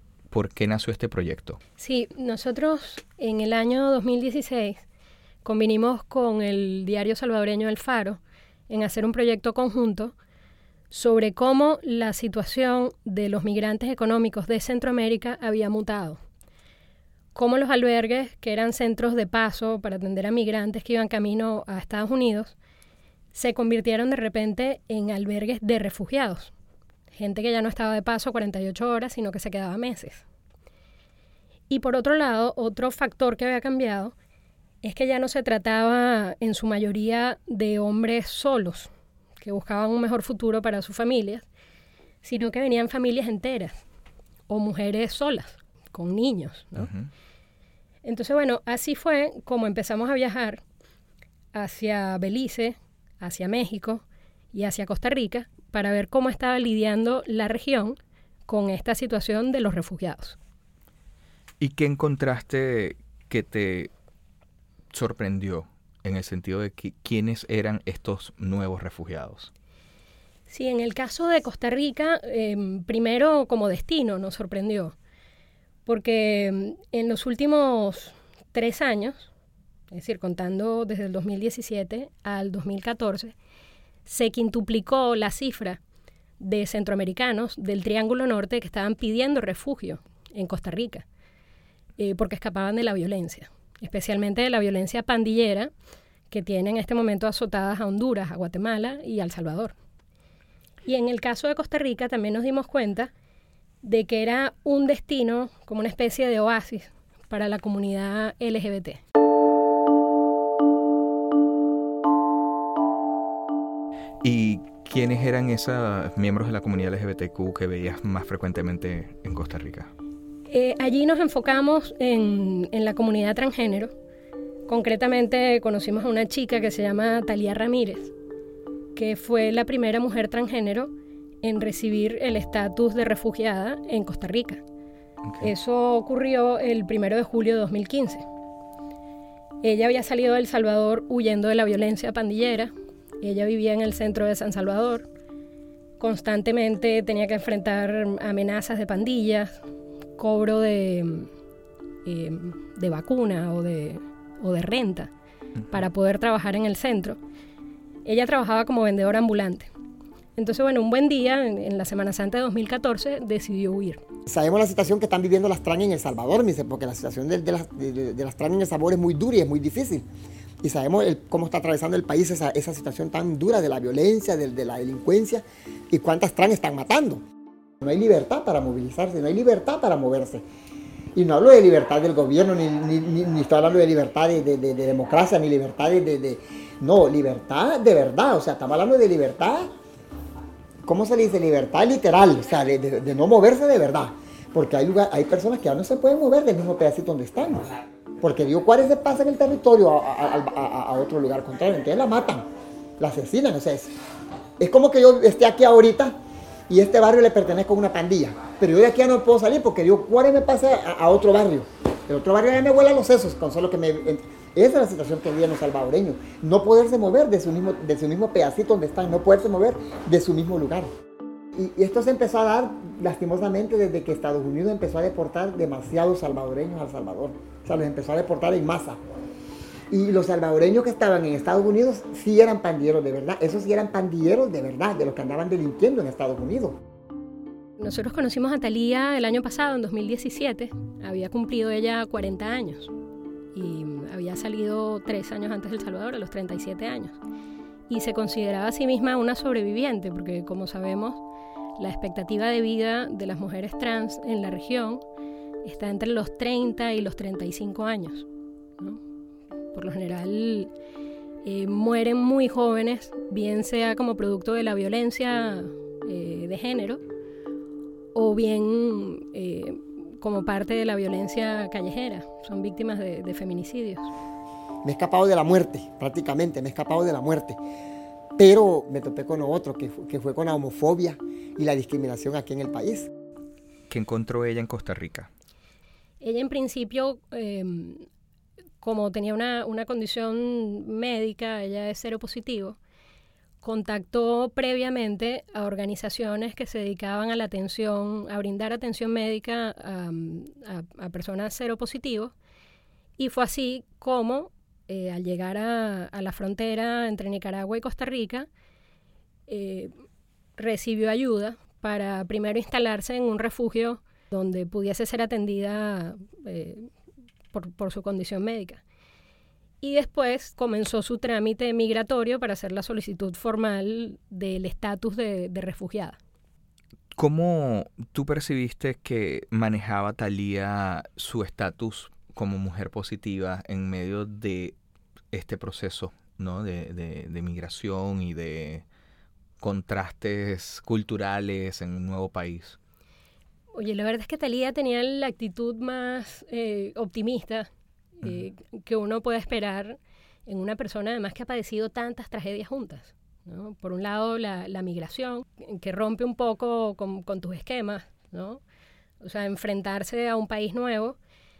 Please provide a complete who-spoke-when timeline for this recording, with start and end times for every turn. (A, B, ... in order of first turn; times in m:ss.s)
0:00.3-0:01.6 A
0:01.8-0:04.8 B
0:05.4-0:10.1 B
0:10.9-0:16.2 B
0:17.3-0:22.5 B
0:23.3-0:26.5 B
0:27.1-0:30.2 B
0:31.7-0:34.1 B
0:34.8-0:38.9 B
0:39.4-0:41.5 B
0:42.2-0:43.8 B
0:44.5-0:46.9 B
0:46.7-0:47.1 A
0:48.0-0:50.6 B
0:51.5-1:00.4 B
1:01.6-1:03.9 A
1:04.9-1:09.5 A
1:10.5-1:15.0 B
1:15.8-1:19.3 B
1:19.9-1:23.3 B
1:24.0-1:25.8 B
1:26.4-1:31.0 B
1:32.0-1:35.7 B
1:36.3-1:39.7 B
1:40.8-1:43.1 B
1:43.8-1:49.0 B
1:54.2-1:59.9 A
2:00.5-2:03.9 B
2:04.7-2:08.1 B
2:09.0-2:10.9 B
2:11.4-2:14.6 B
2:15.4-2:18.2 B
2:19.6-2:25.1 B
2:26.0-2:29.6 B
2:30.2-2:31.3 B
2:32.0-2:35.1 B
2:35.7-2:37.2 B
2:38.0-2:39.7 B
2:40.4-2:44.0 B
2:44.3-2:50.0 C
2:50.6-2:57.2 C
2:57.8-3:00.4 C
3:01.1-3:09.7 C
3:10.8-3:17.7 C
3:18.2-3:22.4 C
3:23.0-3:23.9 C
3:24.6-3:26.2 C
3:26.7-3:40.9 C
3:41.5-3:49.0 C
3:49.9-3:56.8 C
3:57.8-4:02.9 B
4:03.5-4:07.2 B
4:07.9-4:11.2 B
4:11.8-4:15.0 B
4:15.6-4:18.3 B
4:19.7-4:20.7 B
4:21.4-4:27.0 B
4:28.1-4:34.1 B
4:34.8-4:37.6 C
4:38.4-4:43.1 C
4:43.9-4:45.3 A
4:46.2-4:48.0 B
4:48.8-4:52.8 B
4:53.6-5:02.3 B
5:03.2-5:08.5 B
5:09.5-5:09.9 B
5:10.6-5:16.9 B
5:17.5-5:18.8 B
5:19.8-5:26.2 B
5:27.2-5:34.8 A
5:35.3-5:38.8 A
5:39.6-5:42.8 A
5:43.7-5:47.7 B
5:48.2-5:58.6 B
5:59.2-6:01.2 B